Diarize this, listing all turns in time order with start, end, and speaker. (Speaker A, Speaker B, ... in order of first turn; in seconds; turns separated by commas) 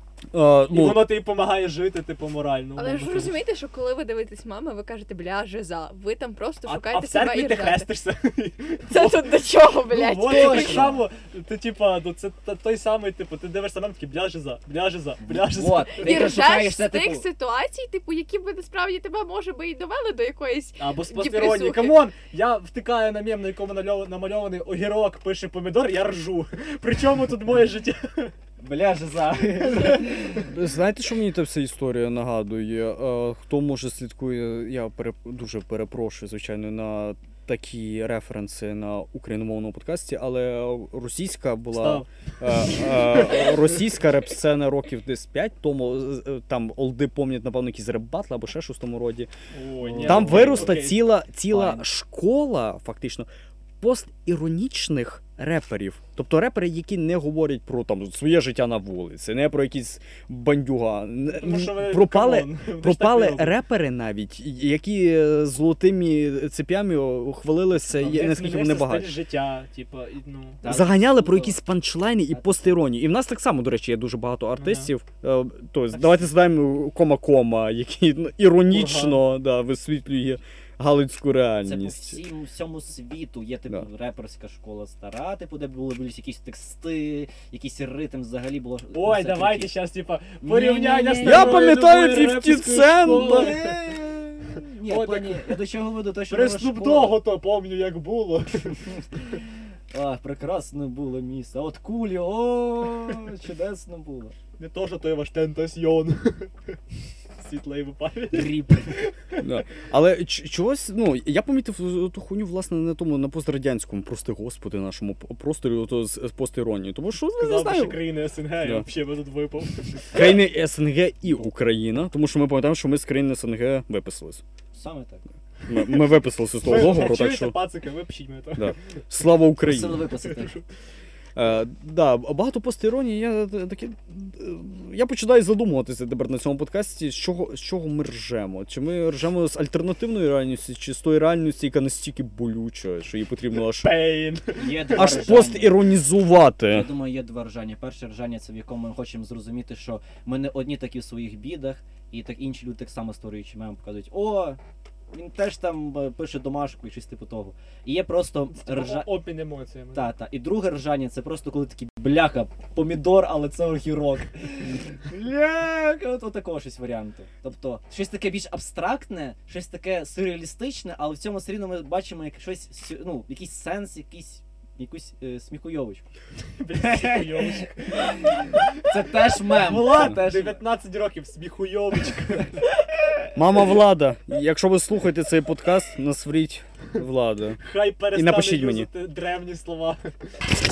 Speaker A: 0.3-1.1, Speaker B: 0.7-3.4, Speaker C: 2.8-7.9, Speaker B: 6.7-16.3, Speaker C: 8.9-11.0, Speaker D: 10.2-11.1, Speaker D: 15.3-17.3, Speaker C: 15.9-22.0, Speaker B: 20.8-28.3, Speaker D: 28.6-30.5, Speaker A: 30.4-49.3, Speaker B: 41.7-43.9, Speaker B: 49.5-51.1, Speaker D: 49.8-51.9, Speaker A: 50.0-53.3, Speaker A: 53.8-69.2, Speaker B: 61.3-63.6, Speaker B: 67.9-70.6, Speaker D: 70.6-71.6, Speaker A: 70.7-82.2, Speaker D: 72.3-72.8, Speaker B: 74.6-74.9, Speaker B: 75.9-76.3, Speaker B: 78.7-79.2, Speaker D: 81.6-89.8, Speaker B: 88.9-93.9, Speaker D: 90.4-91.7, Speaker A: 91.2-93.6, Speaker D: 93.0-97.2, Speaker B: 94.8-95.6, Speaker B: 96.3-98.9, Speaker D: 99.9-104.3, Speaker B: 104.6-106.7, Speaker B: 107.4-109.5, Speaker D: 108.3-109.0, Speaker A: 109.4-118.1, Speaker B: 117.3-120.3, Speaker A: 118.6-118.9, Speaker A: 120.1-124.4, Speaker D: 124.7-125.2, Speaker A: 125.7-127.6, Speaker B: 126.6-128.8, Speaker A: 128.6-130.1, Speaker D: 129.6-130.6, Speaker B: 130.2-130.6, Speaker A: 131.4-143.9, Speaker B: 143.8-145.1, Speaker D: 144.5-145.8, Speaker A: 144.9-146.9, Speaker D: 146.7-154.6, Speaker D: 155.1-159.1, Speaker B: 158.5-160.1, Speaker D: 159.9-176.1, Speaker B: 176.6-182.7, Speaker D: 176.8-180.6, Speaker A: 183.3-187.6, Speaker B: 187.6-190.1, Speaker A: 188.1-188.9